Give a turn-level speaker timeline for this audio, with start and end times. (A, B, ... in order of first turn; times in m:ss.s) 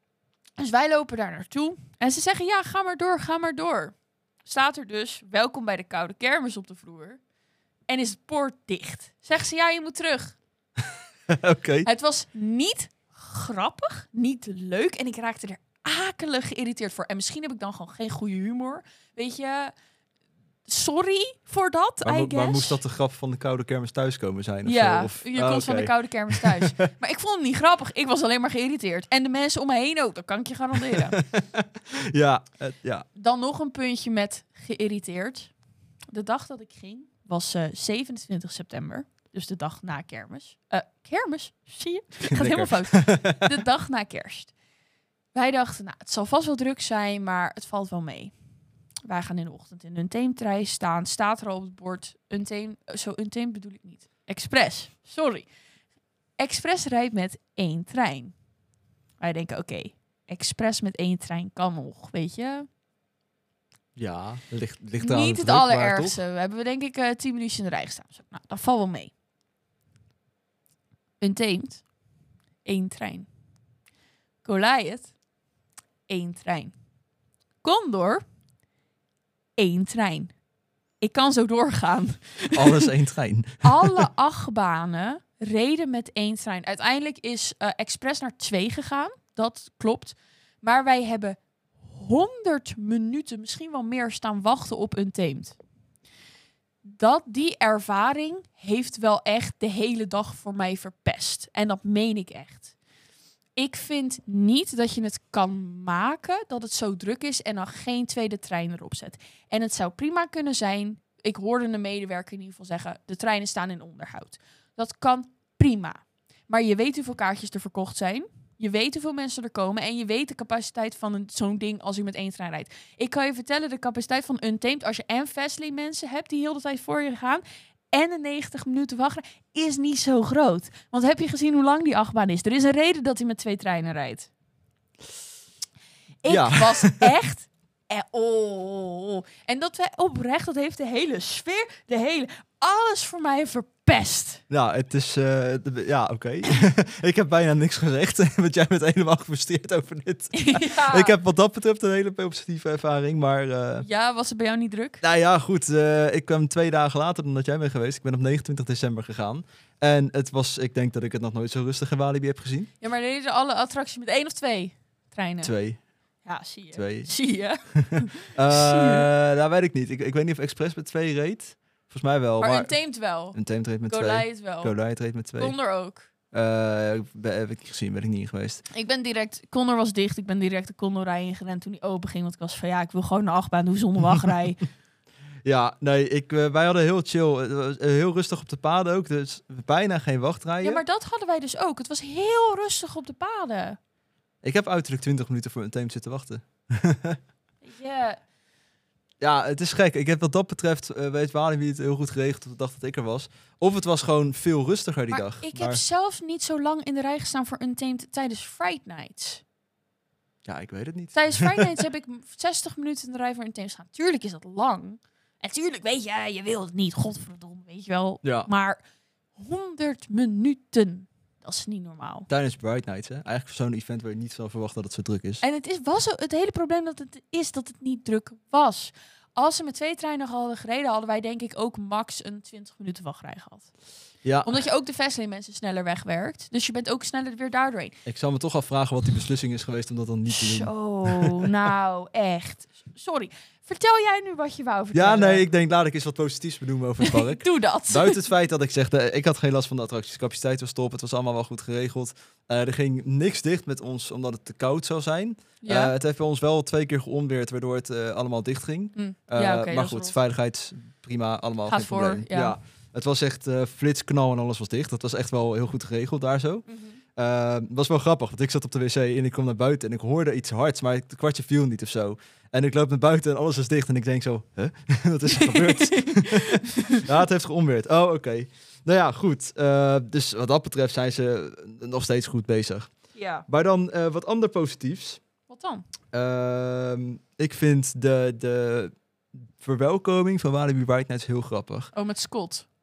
0:00.6-0:07.2 A
0:07.9-0:10.4 A
0:11.3-0:11.9 B
0:11.8-0:19.7 A
0:20.7-0:22.8 A
0:22.0-0:26.8 B
0:24.6-0:31.2 A
0:30.9-0:33.1 B
0:33.2-0:35.5 A
0:36.1-0:44.5 A
0:42.3-0:43.5 B
0:45.3-0:48.3 A
0:49.1-0:55.5 A
0:56.4-0:58.3 A
0:59.2-1:02.7 A
1:04.0-1:06.2 B
1:05.0-1:09.1 A
1:11.2-1:11.8 A
1:12.6-1:13.3 A
1:14.4-1:15.1 A
1:16.1-1:16.7 A
1:17.6-1:18.2 A
1:19.6-1:20.3 A
1:21.0-1:22.9 A
1:22.5-1:24.1 B
1:23.6-1:35.6 A
1:36.8-1:42.7 A
1:43.6-2:14.3 A
2:16.2-2:24.4 A
2:16.3-2:17.1 B
2:24.5-2:33.9 B
2:30.3-2:31.2 A
2:33.8-2:35.0 A
2:35.0-2:42.7 B
2:42.8-2:45.5 A
2:45.4-2:45.8 B
2:46.2-2:49.1 A
2:46.8-2:47.1 B
2:47.7-2:52.7 B
2:52.4-2:54.7 A
2:53.3-2:55.6 B
2:55.4-2:56.1 A
2:56.3-2:58.6 B
2:58.7-3:04.6 A
3:05.4-3:10.8 B
3:10.6-3:13.8 A
3:14.4-3:17.2 B
3:17.6-3:18.2 A
3:19.2-3:25.8 B
3:25.1-3:29.4 A
3:30.4-3:31.8 B
3:31.1-3:38.8 A
3:38.2-3:38.5 B
3:39.4-3:42.3 A
3:42.3-3:45.4 B
3:45.4-3:53.7 A
3:54.2-3:54.6 B
3:54.4-3:58.0 A
3:58.1-4:01.4 B
4:00.3-4:05.4 A
4:04.9-4:42.9 B
4:07.0-4:08.3 A
4:15.6-4:15.9 A
4:19.0-4:20.2 A
4:21.7-4:22.6 A
4:26.7-4:27.0 A
4:35.3-4:37.1 A
4:43.2-4:43.4 A
4:43.5-4:45.2 B
4:45.5-4:45.8 A
4:46.1-4:48.9 B
4:49.6-4:51.9 B
4:51.9-4:52.6 A